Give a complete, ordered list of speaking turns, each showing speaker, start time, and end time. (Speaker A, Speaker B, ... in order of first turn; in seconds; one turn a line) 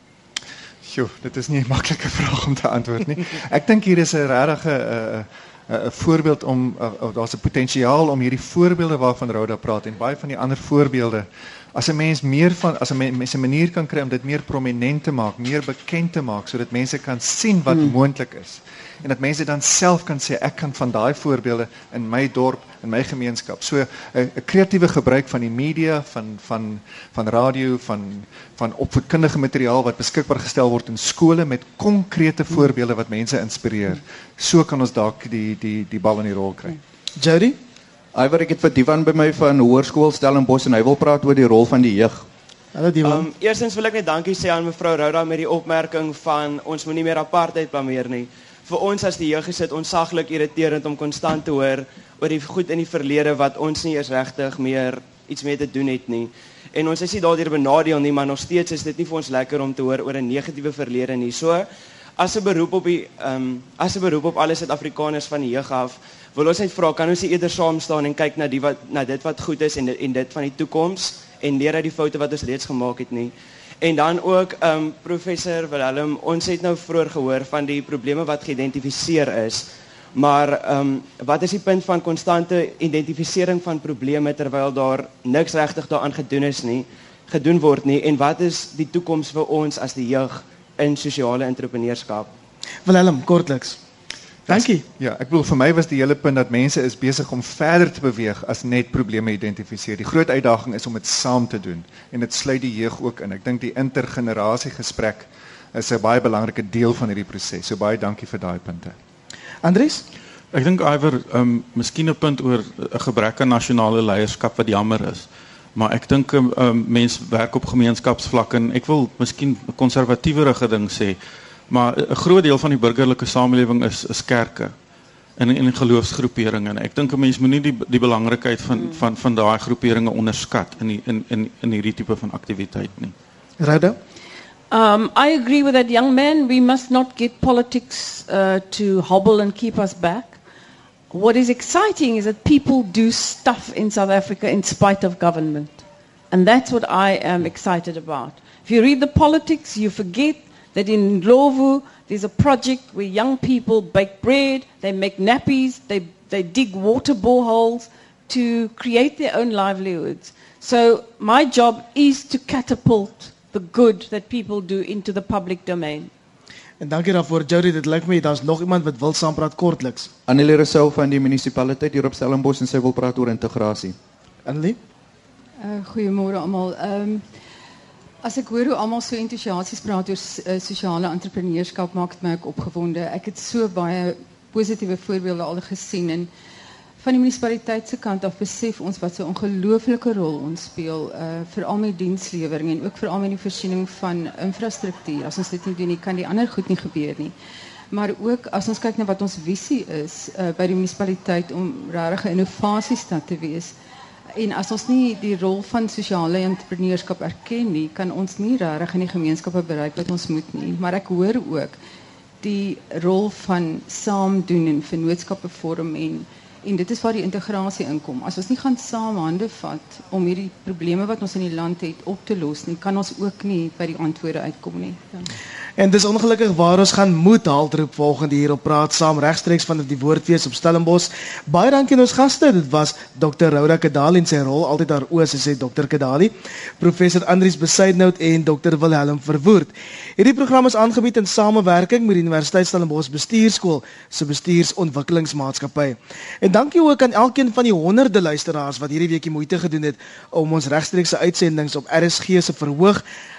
Speaker A: 0.8-36.8
Speaker B: 37.2-37.6
Speaker C: 38.1-42.2
Speaker B: 42.7-43.2
Speaker D: 43.0-61.7
Speaker D: 62.2-92.3
Speaker B: 92.8-93.8
Speaker A: 94.5-108.9
Speaker B: 94.5-94.8
Speaker B: 109.6-110.0
Speaker E: 110.5-121.2
Speaker E: 121.7-124.7
Speaker E: 125.4-133.1
Speaker F: 128.7-129.0
Speaker B: 133.6-134.0
Speaker F: 134.7-140.4
Speaker F: 141.1-166.1
Speaker B: 166.8-170.1
Speaker C: 170.3-173.9
Speaker B: 174.4-174.8
Speaker G: 175.6-177.2
Speaker G: 178.2-186.3
Speaker G: 187.0-197.3
Speaker G: 197.9-203.7
Speaker G: 204.3-211.8
Speaker G: 212.4-225.3
Speaker B: 225.8-253.0